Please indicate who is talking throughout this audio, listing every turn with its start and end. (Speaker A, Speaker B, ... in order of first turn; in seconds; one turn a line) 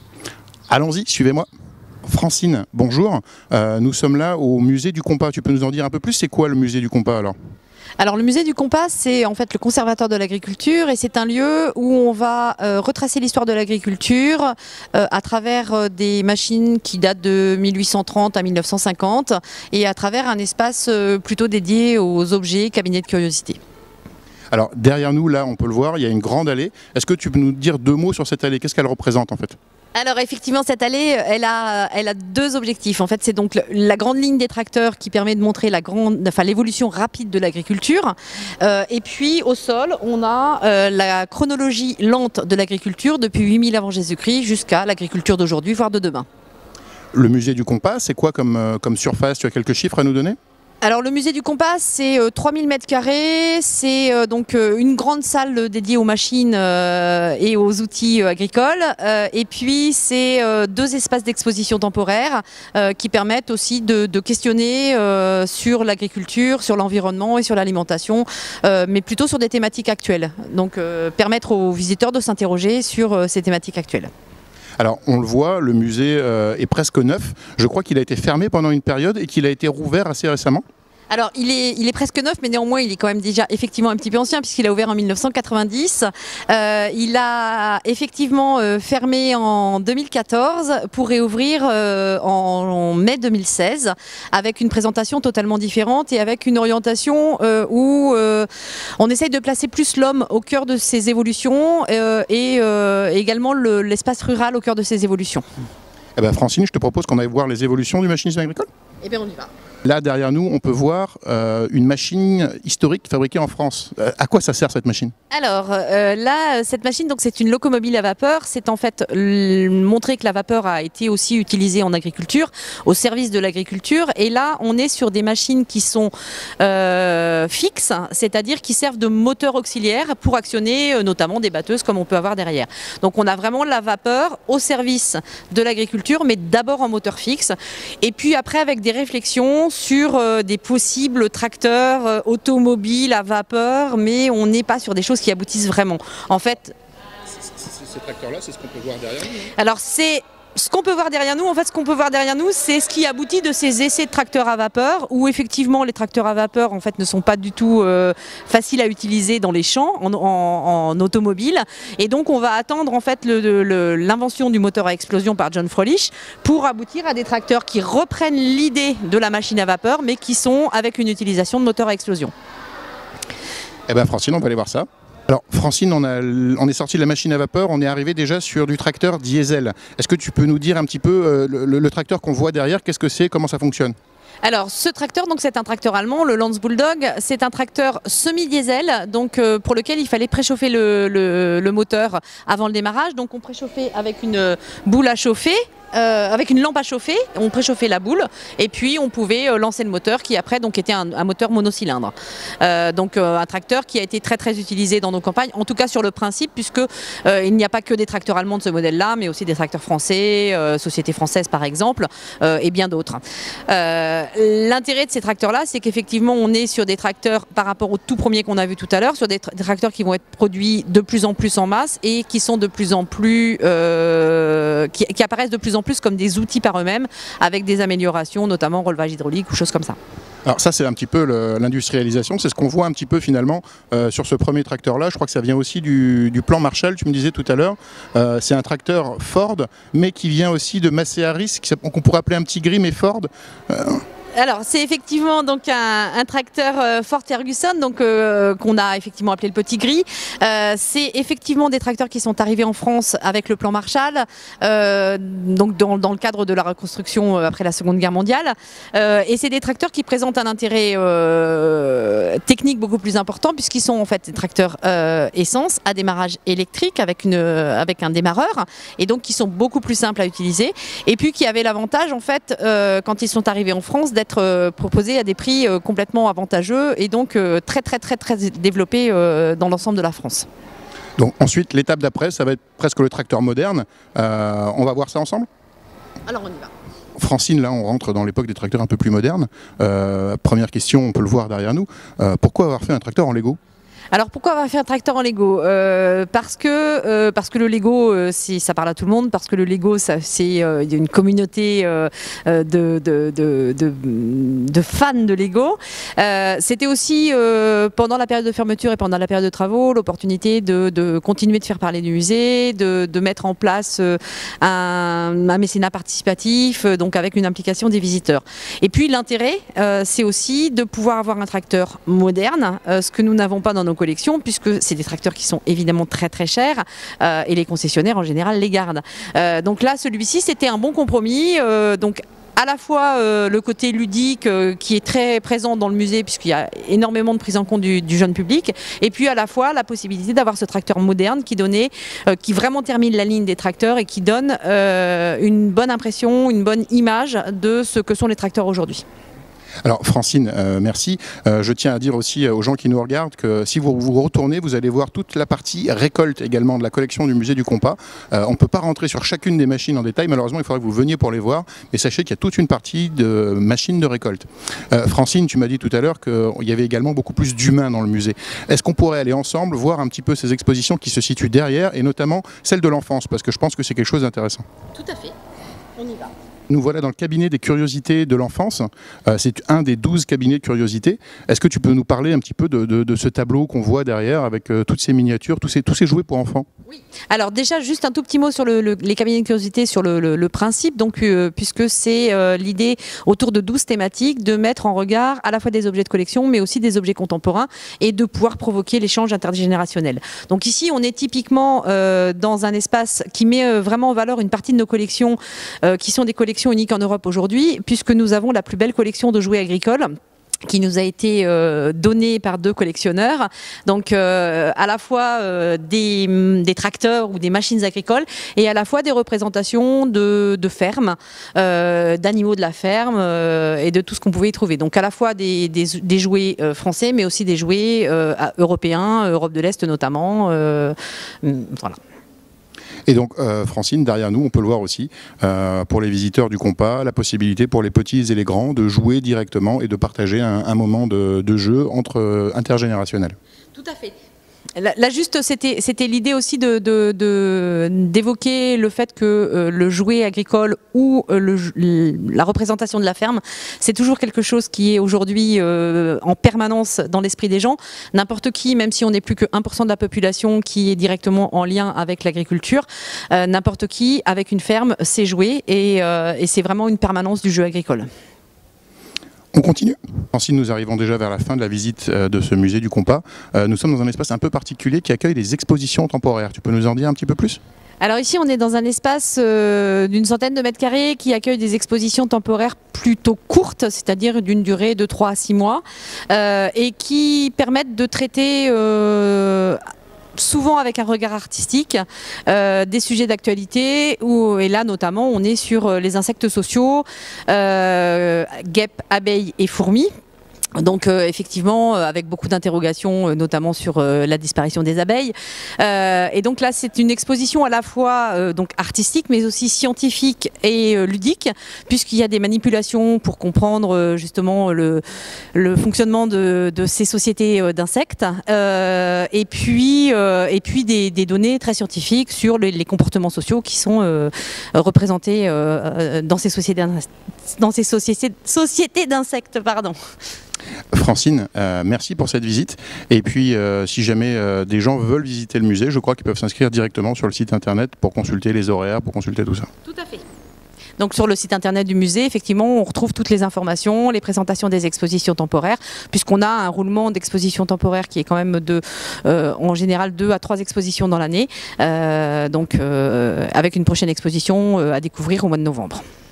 Speaker A: 0.7-1.5
Speaker A: 2.1-7.3
Speaker B: 8.0-23.6
Speaker A: 24.5-29.6
Speaker B: 29.9-46.3
Speaker A: 47.1-50.4
Speaker B: 50.8-74.1
Speaker A: 74.8-80.6
Speaker B: 81.1-105.5
Speaker A: 106.2-108.7
Speaker B: 109.0-109.5
Speaker A: 109.8-115.1
Speaker B: 115.3-146.8
Speaker A: 147.4-149.5
Speaker B: 149.6-172.3
Speaker A: 173.9-183.9
Speaker B: 184.4-230.0
Speaker A: 230.5-244.0
Speaker B: 244.3-280.5
Speaker A: 281.2-285.5
Speaker B: 286.3-286.7
Speaker A: 287.2-293.6
Speaker B: 294.1-349.0
Speaker A: 349.9-374.6
Speaker B: 374.9-375.3
Speaker B: 376.0-376.3
Speaker A: 376.7-386.7
Speaker B: 386.9-410.1
Speaker B: 410.7-432.0
Speaker A: 433.1-443.4
Speaker B: 443.7-444.2
Speaker B: 444.8-468.1
Speaker A: 469.5-477.6
Speaker B: 478.0-489.8
Speaker B: 490.4-500.1
Speaker B: 500.8-515.0
Speaker B: 515.5-530.0
Speaker A: 530.9-539.7
Speaker B: 539.9-540.2
Speaker B: 541.0-556.0